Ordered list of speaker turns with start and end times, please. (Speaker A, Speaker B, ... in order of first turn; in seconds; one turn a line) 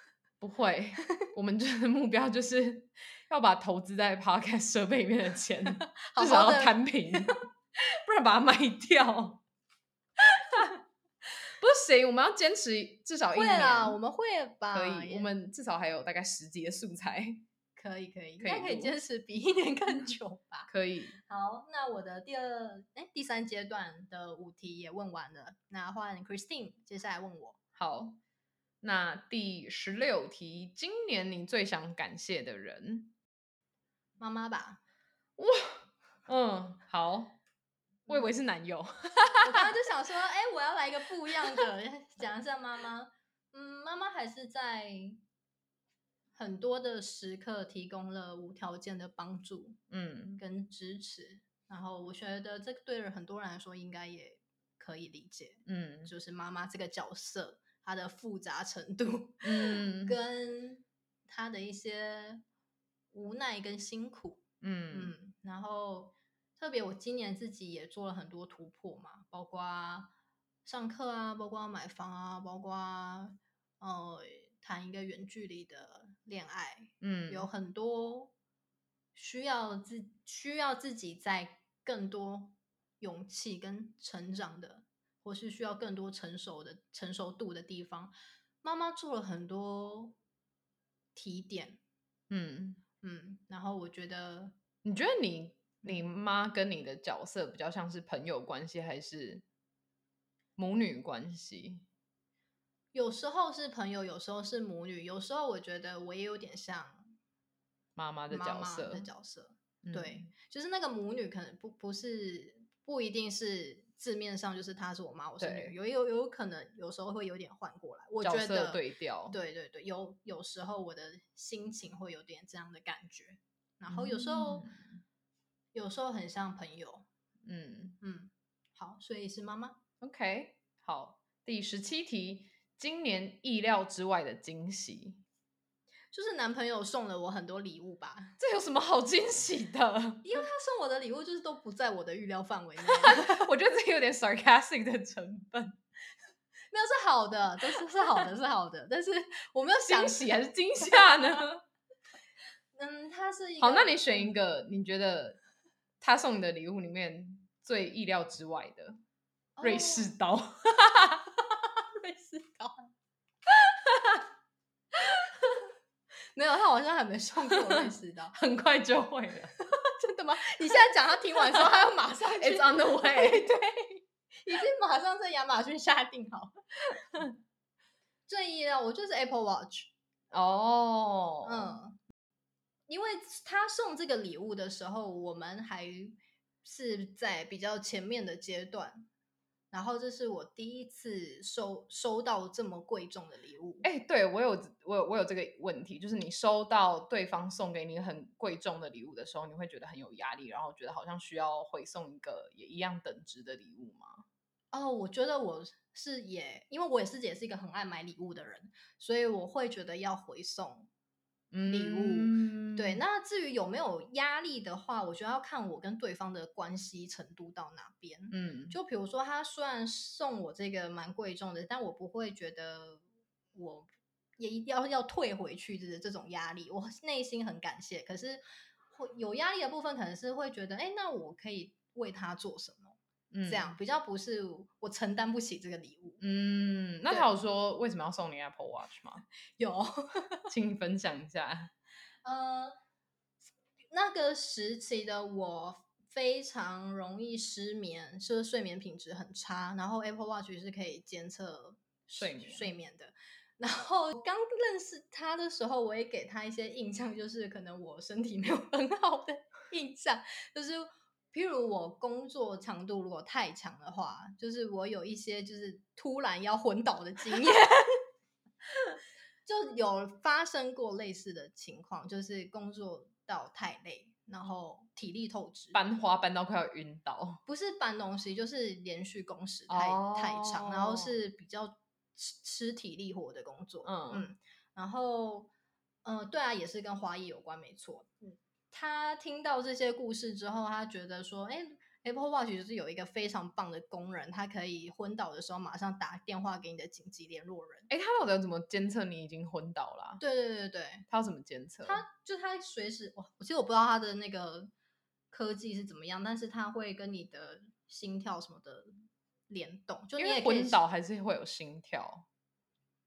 Speaker A: 0.4-9.4
Speaker B: 5.7-7.4
Speaker A: 11.6-14.0
Speaker B: 13.3-15.3
Speaker A: 14.7-17.4
Speaker B: 17.8-20.7
Speaker A: 18.4-18.9
Speaker A: 20.7-21.2
Speaker B: 21.2-27.6
Speaker A: 27.8-28.2
Speaker A: 28.8-33.1
Speaker B: 34.2-34.8
Speaker A: 35.4-37.4
Speaker B: 38.1-38.4
Speaker A: 38.1-39.7
Speaker B: 39.4-45.2
Speaker B: 46.3-49.8
Speaker A: 49.9-50.4
Speaker B: 50.4-62.4
Speaker A: 55.6-56.1
Speaker A: 59.4-60.2
Speaker B: 63.1-70.1
Speaker A: 64.6-65.1
Speaker B: 70.6-78.3
Speaker A: 77.0-77.5
Speaker B: 79.1-90.2
Speaker B: 91.1-91.8
Speaker A: 92.3-92.8
Speaker B: 93.0-94.6
Speaker A: 94.8-99.4
Speaker A: 100.6-101.8
Speaker B: 102.9-107.1
Speaker A: 108.0-109.1
Speaker B: 108.3-124.7
Speaker A: 109.8-110.3
Speaker A: 115.4-115.7
Speaker A: 118.2-119.3
Speaker A: 123.9-125.0
Speaker B: 125.7-127.1
Speaker A: 127.4-128.0
Speaker B: 128.0-129.8
Speaker A: 130.0-135.2
Speaker B: 136.1-138.4
Speaker A: 138.4-140.4
Speaker B: 140.2-143.5
Speaker A: 142.9-145.8
Speaker B: 146.7-151.4
Speaker A: 149.8-151.6
Speaker B: 152.8-154.3
Speaker A: 153.6-155.4
Speaker A: 156.0-159.0
Speaker B: 159.6-160.1
Speaker A: 159.6-161.3
Speaker B: 161.9-162.9
Speaker A: 163.8-164.2
Speaker B: 166.3-168.3
Speaker A: 167.7-169.5
Speaker B: 169.6-176.6
Speaker A: 171.3-173.5
Speaker B: 178.3-179.9
Speaker A: 180.3-181.8
Speaker B: 181.4-182.0
Speaker B: 182.9-189.1
Speaker B: 189.7-193.8
Speaker A: 193.8-204.2
Speaker B: 204.7-210.9
Speaker A: 211.5-213.0
Speaker B: 211.7-236.2
Speaker A: 218.3-218.8
Speaker A: 233.3-233.8
Speaker A: 236.2-239.2
Speaker B: 239.6-240.5
Speaker A: 240.5-241.7
Speaker B: 242.2-242.7
Speaker B: 243.9-268.0
Speaker A: 252.2-252.7
Speaker B: 269.4-275.8
Speaker A: 275.7-277.4
Speaker B: 277.4-285.5
Speaker A: 279.7-281.1
Speaker A: 283.8-284.3
Speaker B: 286.0-297.9
Speaker A: 297.9-300.2
Speaker B: 300.2-301.1
Speaker A: 301.1-302.0
Speaker B: 301.8-304.7
Speaker B: 305.3-308.9
Speaker B: 309.5-310.8
Speaker A: 310.2-312.2